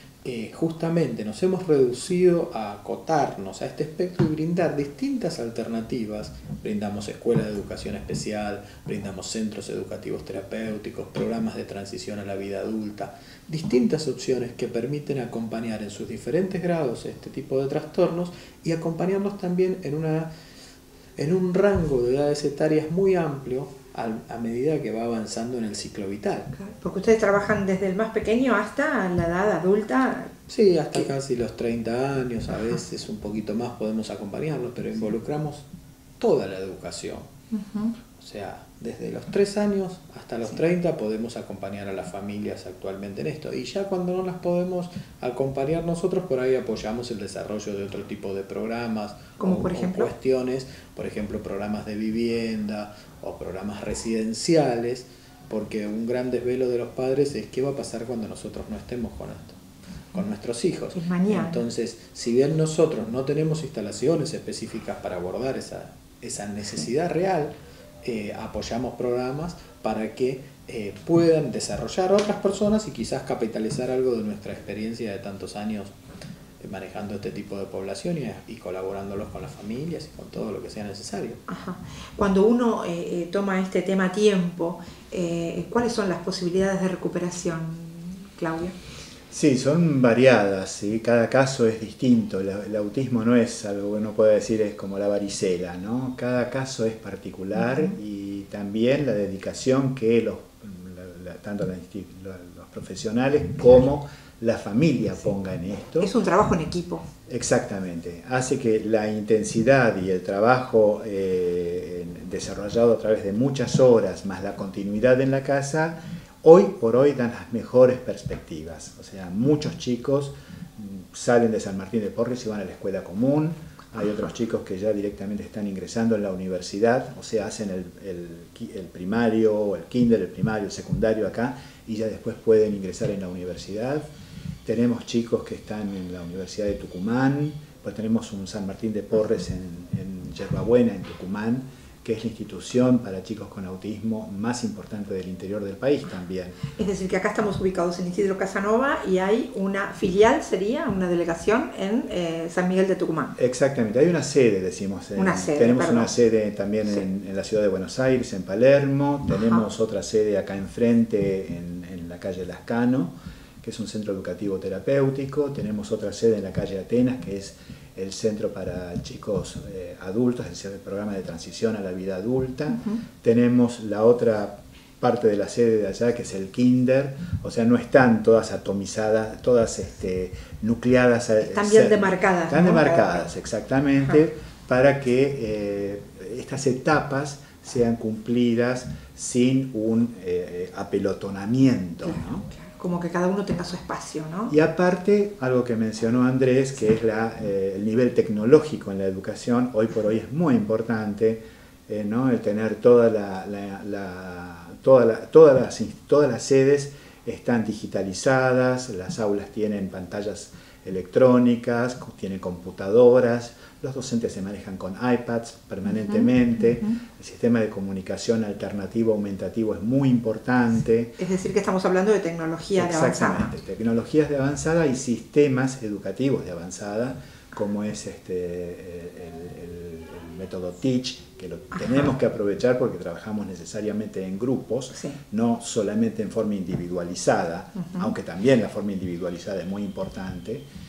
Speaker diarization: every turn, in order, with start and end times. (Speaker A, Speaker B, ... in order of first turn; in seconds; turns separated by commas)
Speaker A: 0.2-20.3, Speaker A: 21.2-26.5, Speaker B: 26.6-30.3, Speaker A: 30.5-35.7, Speaker A: 36.2-37.3, Speaker B: 37.5-38.0, Speaker A: 38.1-59.6, Speaker B: 49.4-50.1, Speaker A: 60.1-76.0, Speaker B: 60.9-61.6, Speaker A: 76.6-81.4, Speaker B: 81.5-88.8, Speaker C: 89.3-106.1, Speaker B: 97.6-97.9, Speaker B: 106.0-107.1, Speaker C: 107.3-134.1, Speaker C: 134.7-146.6, Speaker B: 146.7-153.4, Speaker C: 153.4-192.4, Speaker B: 155.2-156.1, Speaker B: 159.3-159.7, Speaker B: 172.7-173.0, Speaker B: 181.4-183.3, Speaker B: 192.0-194.5, Speaker C: 194.5-221.2, Speaker B: 215.9-216.3, Speaker B: 221.2-223.5, Speaker C: 222.8-240.7, Speaker B: 231.8-232.1, Speaker B: 237.8-238.1